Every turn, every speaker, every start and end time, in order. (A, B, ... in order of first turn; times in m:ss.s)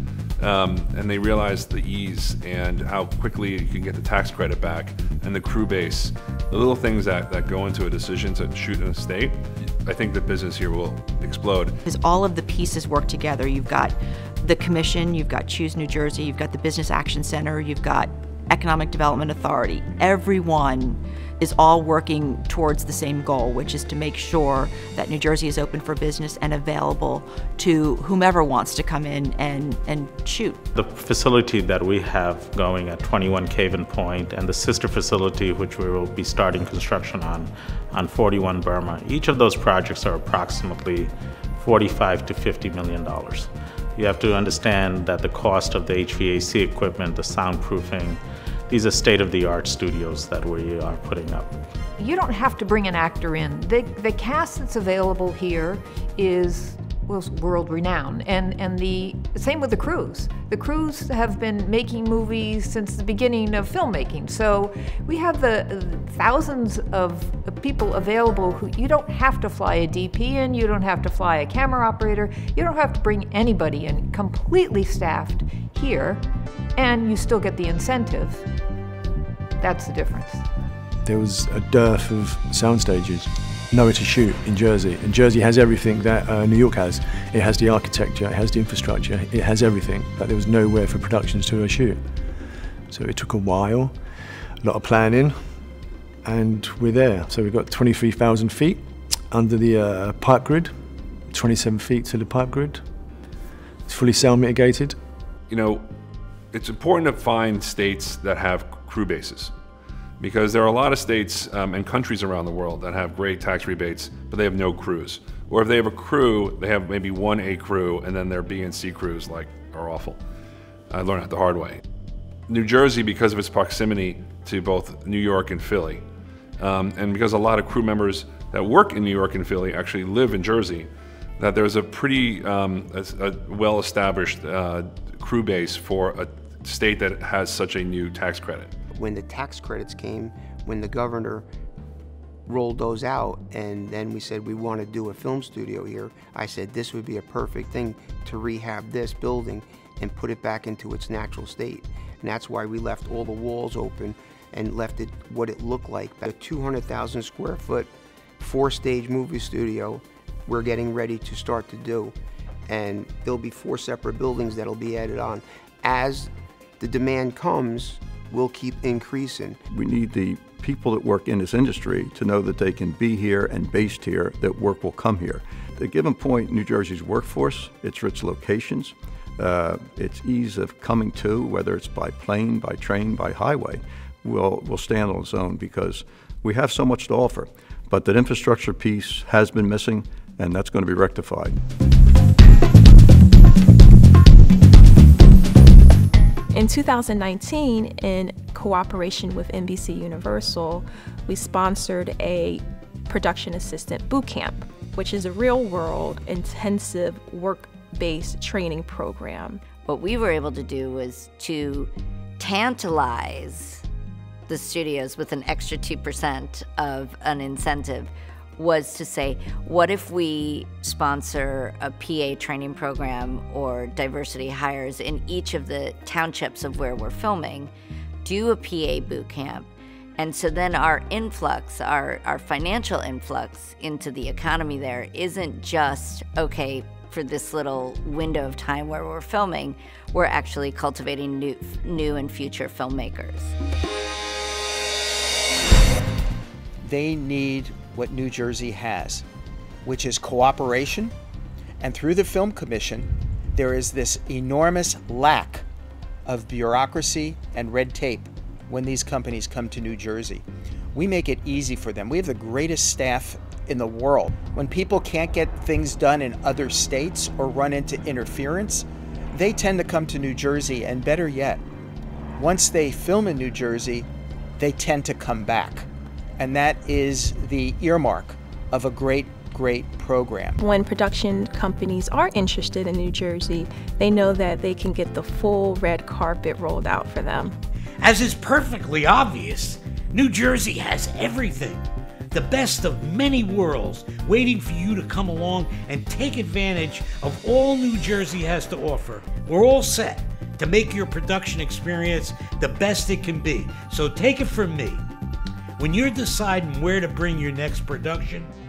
0:00.4-0:11.8 A
0:11.8-0:30.7 B
0:30.7-0:51.5 C
0:52.0-1:16.2 D
1:16.8-1:18.5 D
1:19.6-1:20.4 D
1:21.0-1:35.6 E
1:36.2-1:42.8 E
1:43.8-1:45.0 E
1:45.5-1:45.8 A
1:46.5-1:49.5 A
1:50.2-2:00.2 A
2:00.9-2:01.8 A
2:02.5-2:06.0 A
2:06.6-2:10.9 A
2:11.4-2:18.7 A
2:19.0-2:21.4 F
2:22.5-2:37.9 F
2:38.4-2:42.1 F
2:42.7-2:49.6 F
2:49.8-3:11.5 G
3:16.5-3:29.6 H
3:29.8-3:33.8 I
3:34.5-3:47.7 I
3:48.2-4:03.5 I
4:06.8-4:09.2 D
4:09.8-4:11.1 D
4:11.8-4:15.6 D
4:16.2-4:31.6 D
4:32.4-4:35.9 D
4:36.4-4:40.6 D
4:40.6-4:47.5 H
4:48.0-5:05.0 J
5:05.8-5:08.5 J